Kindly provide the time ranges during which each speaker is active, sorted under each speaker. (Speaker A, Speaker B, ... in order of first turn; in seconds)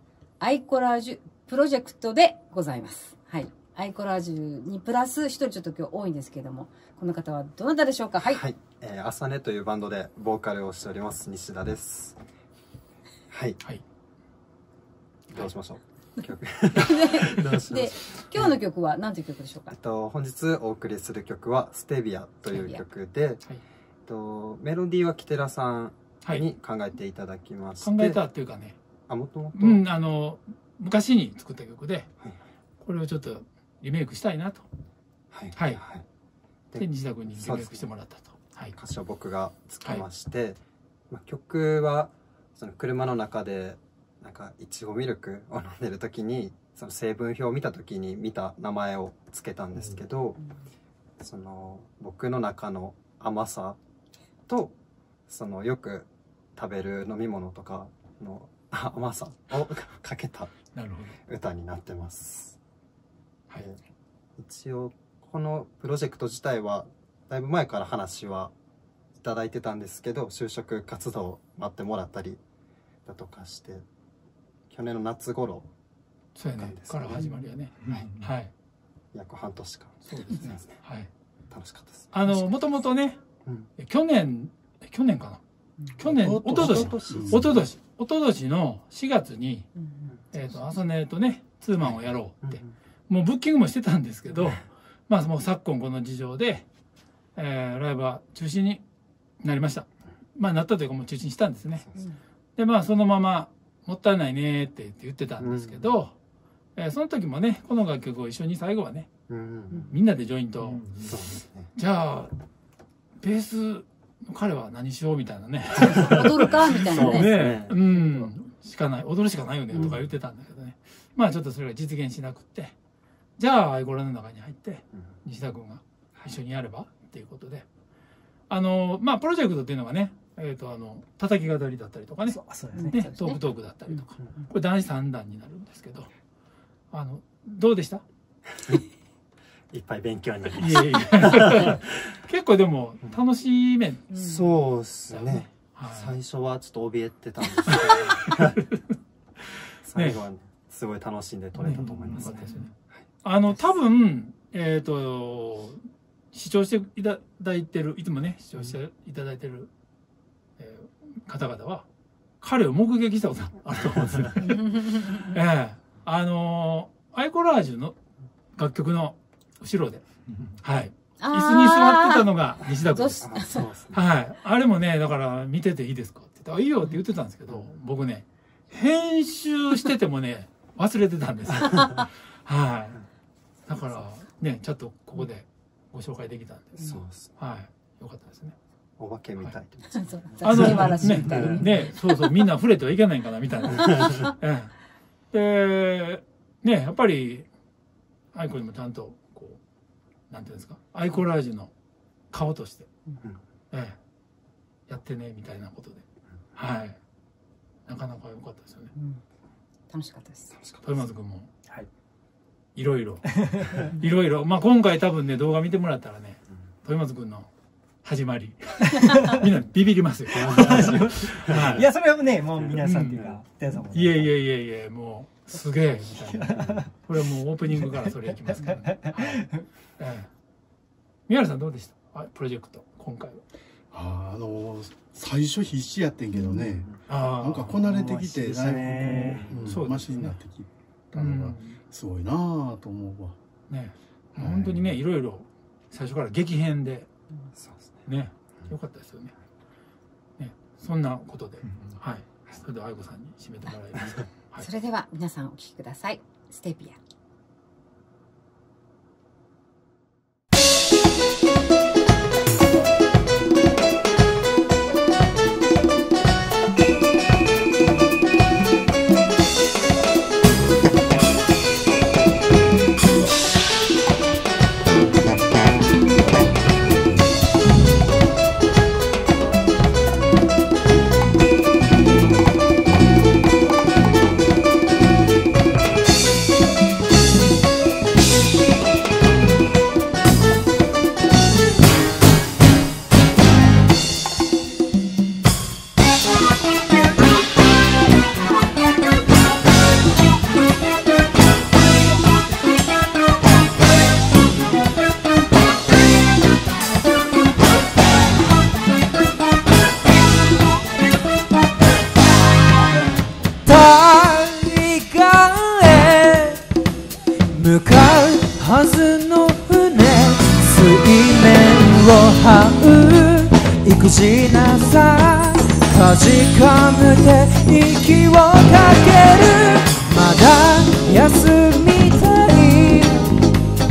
Speaker A: 0.4-8.4, 16.8-19.8, 22.5-22.8, 89.8-90.1, 115.8-117.3, 118.0-118.3, 132.8-134.0, 144.1-144.4, 171.2-173.6, 189.9-191.9, 208.9-209.2, 209.9-210.5, 254.6-257.0
Speaker B: 8.2-12.2, 13.3-13.6, 15.3-18.5, 19.7-23.4, 24.1-28.2, 29.1-29.8, 35.3-36.0, 36.7-37.9, 38.8-50.4, 51.2-53.8, 54.5-54.8, 55.3-60.5, 61.3-62.6, 64.4-68.5, 69.2-72.4, 73.1-73.8, 74.7-75.7, 76.5-77.3, 79.1-80.8, 81.5-82.4, 83.4-83.7, 86.5-87.6, 91.8-92.7, 101.8-102.1, 105.4-105.9, 109.3-110.0, 111.0-111.7, 115.9-116.2, 116.8-117.8, 139.7-141.8, 144.2-148.6, 149.8-153.6, 173.2-174.0, 186.8-187.3, 189.0-191.5, 210.5-211.0, 220.3-221.8, 222.6-223.2, 236.6-237.0, 247.6-248.0
Speaker C: 27.8-28.8, 29.5-32.1, 32.8-34.6, 35.5-35.8, 36.8-38.7, 60.7-61.2, 76.3-78.5, 80.1-81.1, 82.1-83.2, 83.8-85.4, 86.0-89.7, 90.3-96.7, 97.4-98.8, 99.4-101.8, 102.6-106.1, 106.8-109.1, 109.9-110.8, 111.8-112.3, 113.2-122.8, 123.4-127.7, 128.5-136.1, 136.9-138.0, 140.6-144.2, 145.1-146.1, 147.7-148.8, 149.9-150.2, 151.6-152.7, 153.2-155.8, 156.3-159.7, 160.6-161.8, 162.4-167.9, 168.6-170.1, 170.6-183.0, 183.7-186.9, 187.4-188.6, 190.4-194.8, 195.3-197.5, 198.3-199.6, 200.3-201.7, 202.3-202.9, 204.9-206.0, 206.6-207.0, 207.9-208.9, 210.8-211.5, 212.8-217.5, 218.0-221.9, 222.8-223.3, 223.9-230.3, 231.3-233.4, 237.1-237.8, 239.6-240.4, 241.1-241.8, 243.7-247.1, 248.1-249.3, 250.4-254.7
Speaker D: 86.1-87.5, 233.9-243.4, 244.4-244.9
Speaker E: 132.3-133.0, 220.6-224.3, 226.2-226.9, 228.3-229.5, 237.9-239.6
Speaker F: 313.6-316.6, 317.5-333.3